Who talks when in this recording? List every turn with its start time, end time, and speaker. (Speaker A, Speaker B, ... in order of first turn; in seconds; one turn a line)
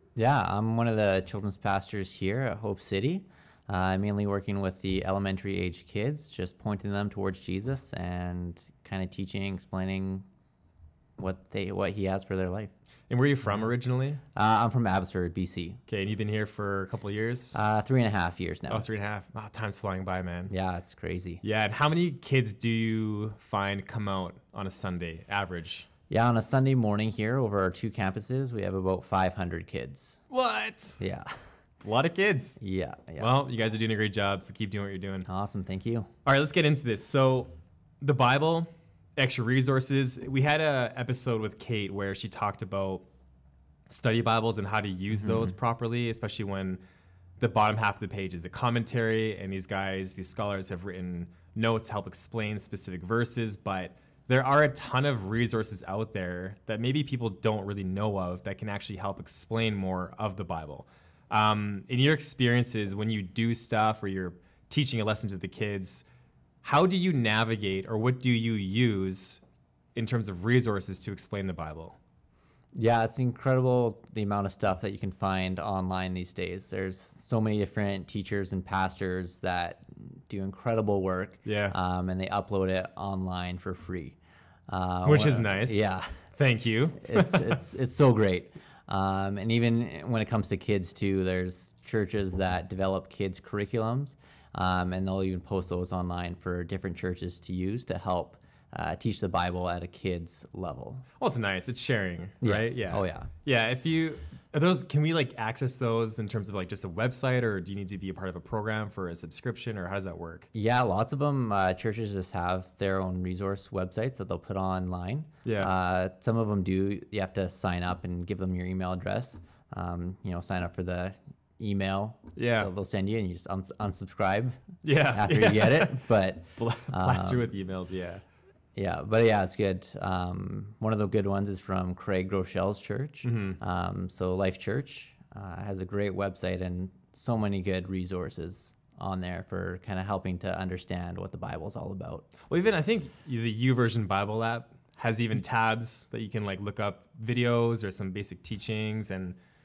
Speaker A: 0.1-10.2
Speaker A: 11.2-12.7
Speaker B: 13.1-14.2
Speaker A: 14.3-15.8
Speaker B: 15.9-17.6
Speaker A: 17.5-18.9
Speaker B: 18.7-20.5
Speaker A: 20.5-21.4
Speaker B: 21.4-25.9
Speaker A: 26.1-30.2
Speaker B: 30.3-31.0
Speaker A: 31.0-31.4
Speaker B: 31.8-32.6
Speaker A: 32.6-33.3
Speaker B: 33.2-35.3
Speaker A: 35.2-36.1
Speaker B: 36.2-43.0
Speaker B: 43.9-46.8
Speaker A: 45.1-45.5
Speaker B: 47.4-66.0
Speaker B: 66.6-69.4
Speaker B: 69.9-72.0
Speaker A: 72.7-86.3
Speaker B: 81.4-81.7
Speaker B: 85.0-87.5
Speaker A: 87.0-101.0
Speaker B: 101.2-110.5
Speaker A: 102.4-103.3
Speaker A: 110.5-127.5
Speaker B: 115.4-115.7
Speaker B: 122.3-122.7
Speaker B: 124.8-126.0
Speaker B: 126.6-128.2
Speaker A: 128.7-142.3
Speaker B: 133.2-133.6
Speaker B: 142.5-149.4